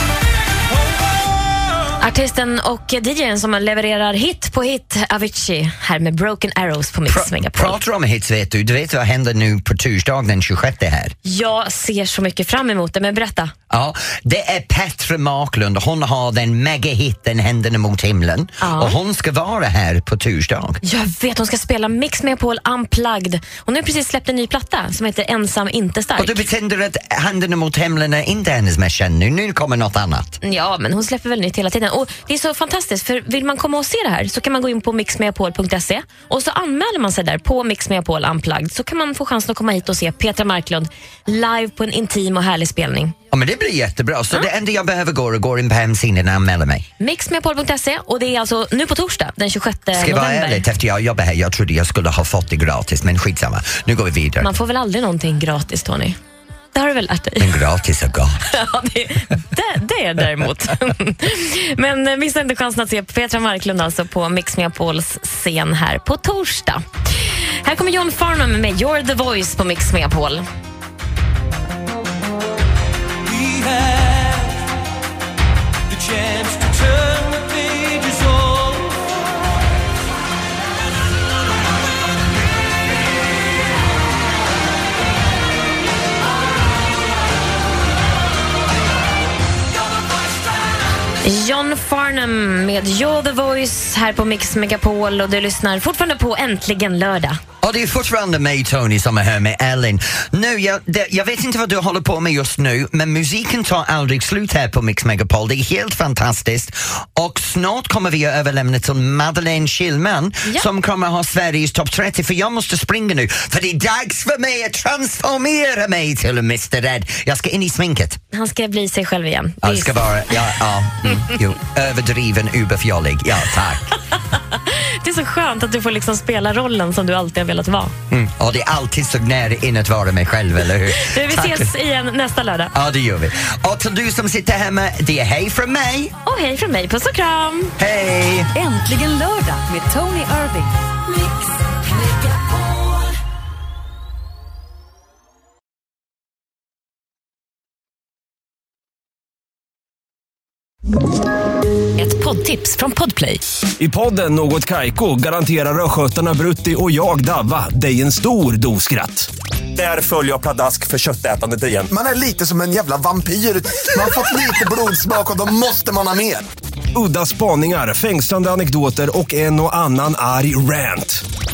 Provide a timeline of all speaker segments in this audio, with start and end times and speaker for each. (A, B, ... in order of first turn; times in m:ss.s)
0:00.7-0:01.9 A
0:02.0-0:07.8 B
0:07.1-0:11.1 C
0:11.2-0:13.5 B
0:13.7-0:20.8 C
0:18.6-0:19.0 B
0:20.8-0:26.4 B
0:26.2-0:30.4 C
0:30.4-0:43.1 B
0:43.3-0:46.8 C
0:47.0-0:50.7 B
0:49.9-0:54.5 C
0:54.4-0:56.2 B
0:56.7-0:57.6 B
0:57.4-0:58.5 C
0:58.5-1:06.8 B
1:07.6-1:10.4 B
1:13.2-1:14.7 A
1:15.9-1:19.4 A
1:31.2-1:37.4 B
1:37.6-1:58.2 C
1:58.3-2:00.0 B
1:59.6-2:03.8 C
2:04.5-2:07.9 B
2:08.1-2:11.7 C
2:10.9-2:12.7 B
2:12.7-2:16.2 C
2:16.2-2:17.8 B
2:17.8-2:18.5 C
2:18.6-2:20.7 D
2:32.0-2:33.4 B
2:33.8-2:41.9 E
2:41.9-2:46.4 F
2:46.9-2:51.2 E